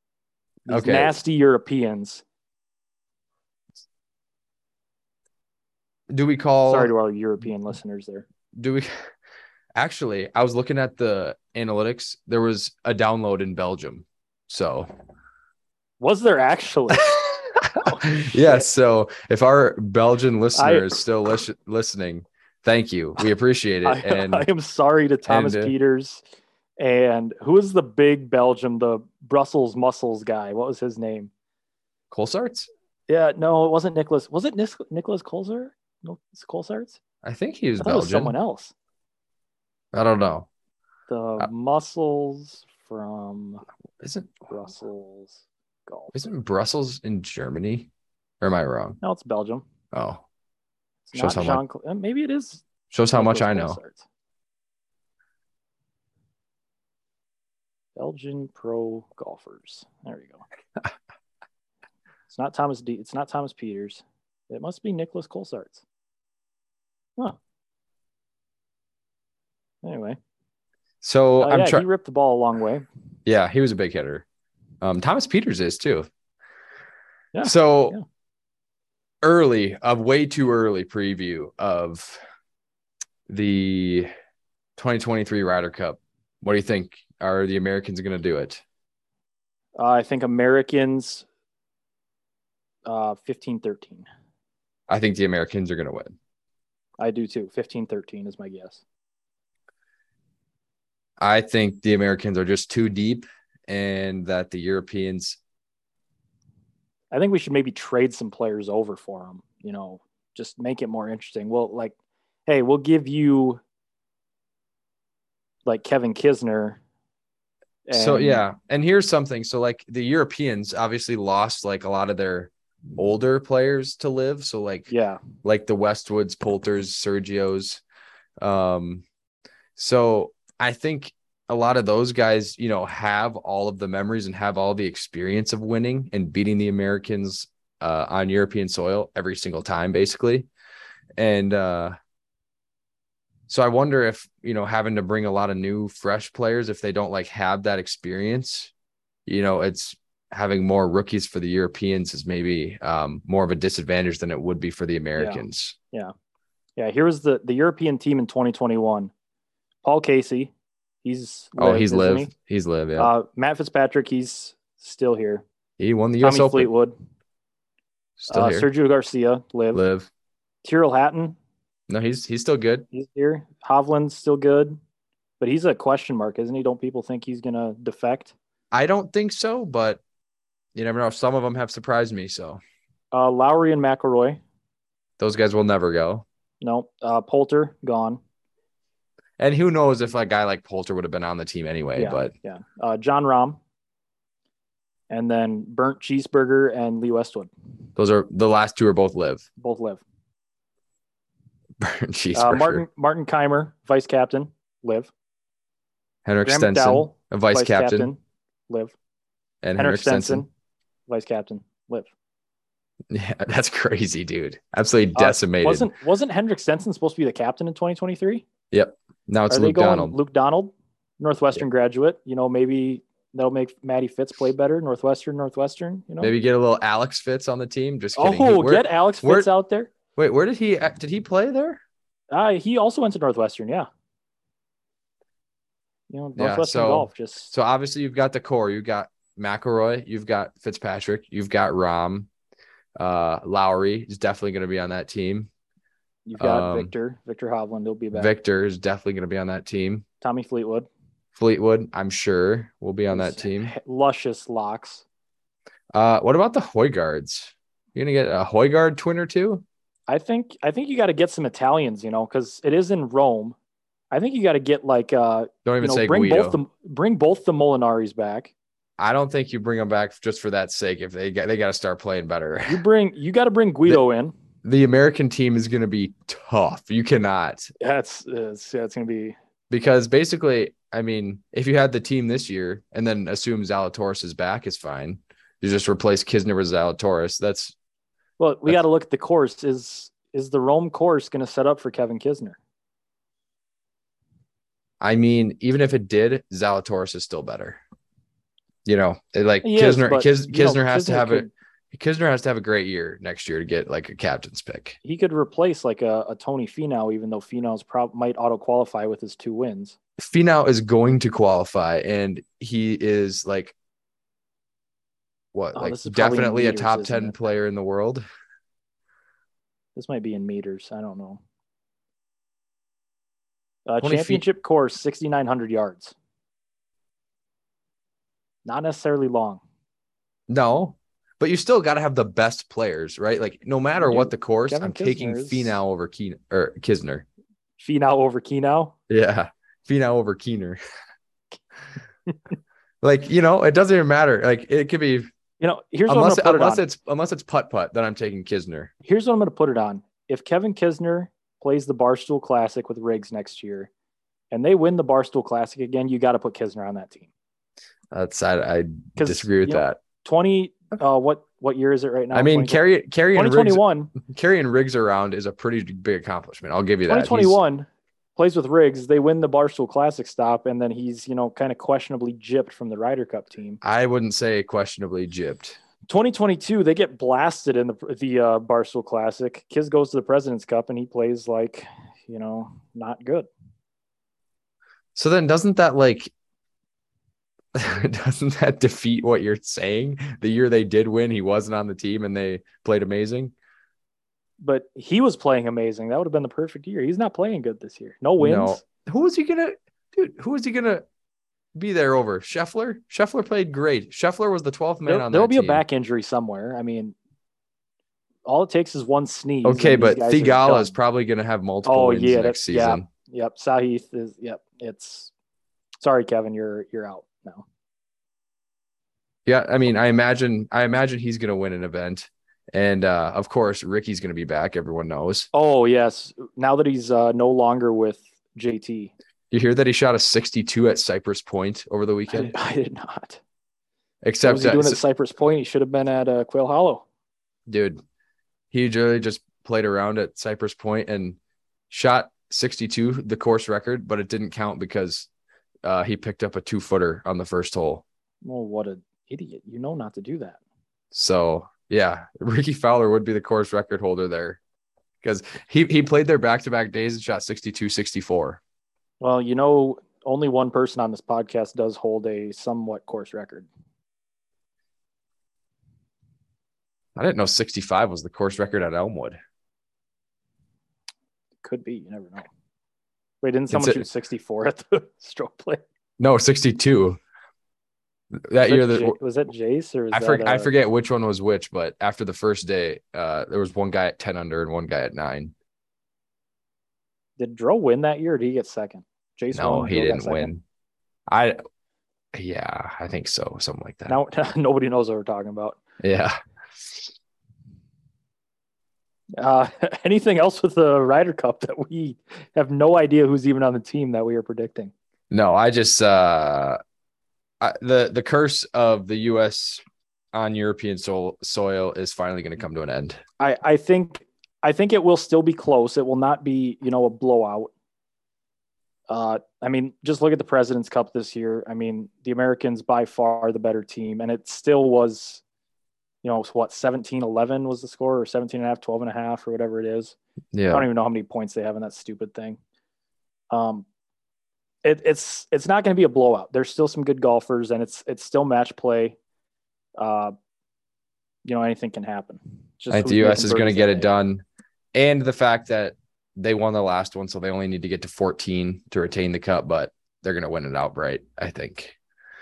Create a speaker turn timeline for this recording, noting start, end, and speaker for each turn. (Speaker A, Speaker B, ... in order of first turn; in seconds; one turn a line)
Speaker A: 0.7-1.1
Speaker B: 0.7-2.2
Speaker A: 6.1-6.9
Speaker B: 6.7-8.2
Speaker A: 8.6-8.9
Speaker A: 9.8-14.9
Speaker B: 16.0-17.1
Speaker A: 17.0-24.5
Speaker B: 17.8-18.7
Speaker B: 20.6-20.9
Speaker B: 23.9-26.2
Speaker A: 25.3-25.7
Speaker B: 26.8-31.3
Speaker A: 32.1-32.7
Speaker B: 33.1-37.0
Speaker A: 37.2-38.4
Speaker B: 37.8-38.7
Speaker A: 39.9-40.5
Speaker B: 41.1-43.6
Speaker A: 44.0-44.4
Speaker B: 44.5-46.2
Speaker A: 46.1-47.9
Speaker A: 48.4-49.0
Speaker B: 49.0-49.7
Speaker A: 49.9-50.2
Speaker B: 51.1-54.0
Speaker A: 51.1-51.6
Speaker A: 52.9-53.8
Speaker B: 58.0-60.4
Speaker B: 62.3-65.8
Speaker B: 69.8-70.2
Speaker A: 71.0-71.8
Speaker B: 71.4-72.9
Speaker A: 73.3-74.2
Speaker A: 74.8-76.1
Speaker B: 77.3-78.0
Speaker A: 77.4-78.0
Speaker A: 79.2-82.2
Speaker A: 83.3-84.1
Speaker A: 84.8-88.6
Speaker B: 89.8-91.3
Speaker B: 92.9-94.1
Speaker A: 94.9-96.1
Speaker B: 97.0-98.8
Speaker A: 101.2-105.4
Speaker B: 107.1-112.0
Speaker B: 112.5-113.6
Speaker B: 115.7-116.8
Speaker B: 117.9-118.4
Speaker A: 117.9-124.9
Speaker B: 124.9-125.2
Speaker A: 125.4-127.8
Speaker A: 128.4-129.1
Speaker A: 129.8-140.5
Speaker A: 141.2-141.9
Speaker A: 143.5-148.7
Speaker A: 149.3-155.8
Speaker B: 155.2-156.1
Speaker B: 156.8-159.1
Speaker B: 159.8-160.5
Speaker B: 161.0-162.3
Speaker A: 161.6-163.1
Speaker B: 163.0-165.4
Speaker A: 165.8-166.7
Speaker B: 166.2-166.9
Speaker A: 168.2-168.7
Speaker B: 168.3-169.8
Speaker A: 169.7-170.1
Speaker B: 170.6-171.4
Speaker A: 171.9-172.9
Speaker B: 172.9-174.8
Speaker B: 175.4-178.3
Speaker A: 178.7-180.0
Speaker A: 180.8-182.6
Speaker B: 183.1-184.4
Speaker A: 185.2-186.2
Speaker B: 186.6-188.2
Speaker A: 189.4-192.3
Speaker B: 192.0-193.6
Speaker B: 195.1-197.5
Speaker A: 198.0-199.5
Speaker B: 199.6-200.0
Speaker A: 201.8-202.8
Speaker B: 202.3-205.1
Speaker A: 206.2-208.1
Speaker B: 206.5-208.9
Speaker A: 209.6-210.4
Speaker B: 209.8-210.5
Speaker B: 211.1-212.1
Speaker A: 213.1-215.9
Speaker B: 215.2-218.5
Speaker A: 218.7-220.2
Speaker B: 219.5-226.3
Speaker A: 226.2-229.5
Speaker B: 228.2-229.9
Speaker A: 230.2-231.8
Speaker B: 232.3-233.9
Speaker B: 236.1-237.5
Speaker A: 236.4-242.3
Speaker A: 243.0-245.5
Speaker B: 246.3-248.3
Speaker A: 246.4-246.9
Speaker A: 248.1-250.1
Speaker B: 250.2-250.9
Speaker A: 251.3-253.7
Speaker B: 253.1-255.1
Speaker A: 255.9-259.6
Speaker B: 260.1-263.6
Speaker B: 264.1-268.5
Speaker A: 265.6-266.6
Speaker A: 269.0-272.8
Speaker B: 272.7-274.3
Speaker A: 274.6-277.7
Speaker B: 277.8-279.4
Speaker A: 279.7-287.7
Speaker B: 288.4-292.6
Speaker A: 295.0-297.8
Speaker A: 298.9-305.0
Speaker B: 299.6-301.5
Speaker B: 305.0-310.0
Speaker A: 310.2-313.7
Speaker A: 315.5-318.2
Speaker B: 315.8-317.4
Speaker B: 319.9-321.4
Speaker B: 323.9-326.1
Speaker A: 324.0-324.4
Speaker B: 328.6-329.6
Speaker A: 330.5-337.3
Speaker B: 334.0-335.8
Speaker B: 337.8-338.9
Speaker A: 339.1-340.8
Speaker A: 343.0-345.3
Speaker B: 345.6-346.8
Speaker A: 346.1-348.9
Speaker B: 349.0-353.9
Speaker B: 354.5-357.3
Speaker A: 358.1-360.0
Speaker B: 359.2-362.8
Speaker A: 362.3-367.6
Speaker B: 363.4-364.1
Speaker B: 367.1-373.8
Speaker A: 373.8-375.8
Speaker B: 376.1-383.5
Speaker A: 385.1-386.3
Speaker A: 387.8-393.5
Speaker B: 394.6-398.8
Speaker A: 398.4-401.0
Speaker A: 401.8-405.8
Speaker B: 405.1-407.1
Speaker B: 408.4-410.9
Speaker A: 409.6-413.1
Speaker B: 411.9-415.3
Speaker B: 416.0-417.6
Speaker A: 419.5-425.5
Speaker B: 425.5-429.1
Speaker A: 429.5-432.5
Speaker B: 432.3-433.4
Speaker A: 434.2-435.0
Speaker B: 434.4-437.1
Speaker A: 437.7-438.0
Speaker A: 438.7-441.4
Speaker A: 441.9-445.3
Speaker A: 445.8-448.1
Speaker B: 448.4-450.6
Speaker A: 451.1-454.6
Speaker A: 455.2-458.6
Speaker B: 459.2-463.7
Speaker A: 467.2-469.4
Speaker B: 471.6-472.5
Speaker B: 473.4-475.8
Speaker A: 473.7-474.0
Speaker A: 476.2-477.2
Speaker A: 478.5-479.2
Speaker B: 478.7-480.7
Speaker A: 480.1-485.5
Speaker B: 487.4-490.5
Speaker A: 489.5-490.6
Speaker A: 491.3-491.6
Speaker A: 492.3-494.2
Speaker B: 494.1-495.8
Speaker A: 496.0-497.1
Speaker B: 499.4-504.9
Speaker A: 505.3-506.8
Speaker A: 507.6-513.2
Speaker B: 513.4-517.7
Speaker B: 519.1-525.4
Speaker B: 526.2-530.1
Speaker A: 530.5-530.9
Speaker B: 530.7-532.6
Speaker B: 533.5-533.9
Speaker B: 534.8-539.2
Speaker B: 540.0-540.3
Speaker B: 541.5-544.1
Speaker A: 542.9-552.0